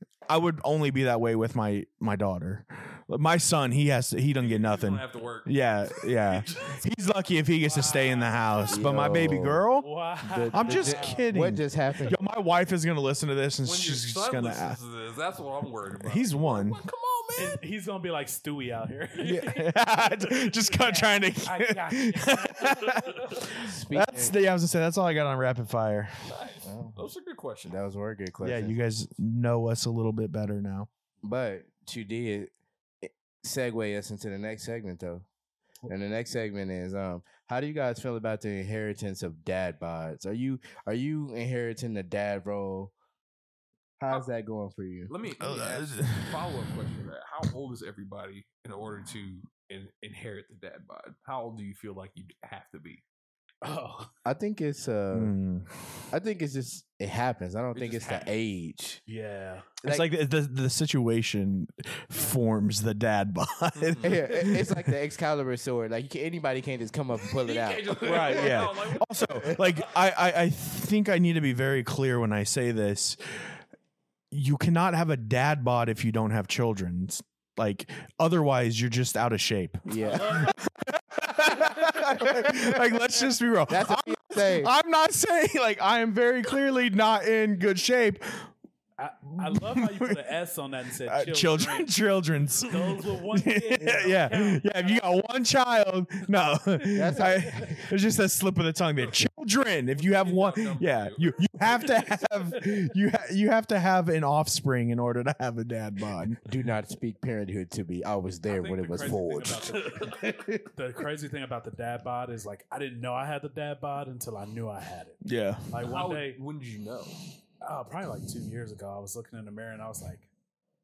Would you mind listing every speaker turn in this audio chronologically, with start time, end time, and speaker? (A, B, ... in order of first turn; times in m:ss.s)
0:00.3-0:09.9 A
0:04.4-0:06.9 B
0:07.6-0:08.6 C
0:08.7-0:09.6 D
0:09.8-0:11.3 C
0:10.2-0:12.2 D
0:10.5-0:14.8 A
0:13.6-0:17.6 B
0:16.0-0:16.8 A
0:17.4-0:19.6 C
0:19.2-0:26.3 A
0:20.6-0:23.3 C
0:22.9-0:23.3 B
0:23.5-0:24.3 D
0:26.3-0:27.8 B
0:26.6-0:27.0 D
0:27.6-0:28.8 D
0:28.4-0:30.9 A
0:31.2-0:32.5 D
0:33.0-0:35.2 D
0:35.9-0:42.9 D
0:44.0-0:45.1 D
0:45.1-0:53.0 B
0:45.4-0:46.5 A
0:53.6-0:54.1 C
0:54.2-0:55.4 D
0:55.1-0:55.9 A
0:56.1-0:59.0 D
0:57.7-0:58.3 B
0:59.1-0:59.7 C
0:59.8-1:00.1 D
0:59.8-1:04.9 A
1:03.8-1:04.2 B
1:04.0-1:08.7 D
1:07.1-1:09.9 B
1:08.0-1:13.6 A
1:09.2-1:09.5 D
1:14.3-1:28.5 A
1:19.8-1:20.5 D
1:20.0-1:20.6 C
1:23.7-1:24.7 D
1:29.0-1:31.9 C
1:29.4-1:30.2 A
1:31.1-1:46.4 A
1:32.7-1:35.0 C
1:36.9-1:37.7 D
1:39.9-1:42.0 B
1:46.4-1:50.0 D
1:48.4-1:56.4 C
1:55.2-1:55.7 A
1:55.8-1:57.2 B
1:57.6-2:00.3 C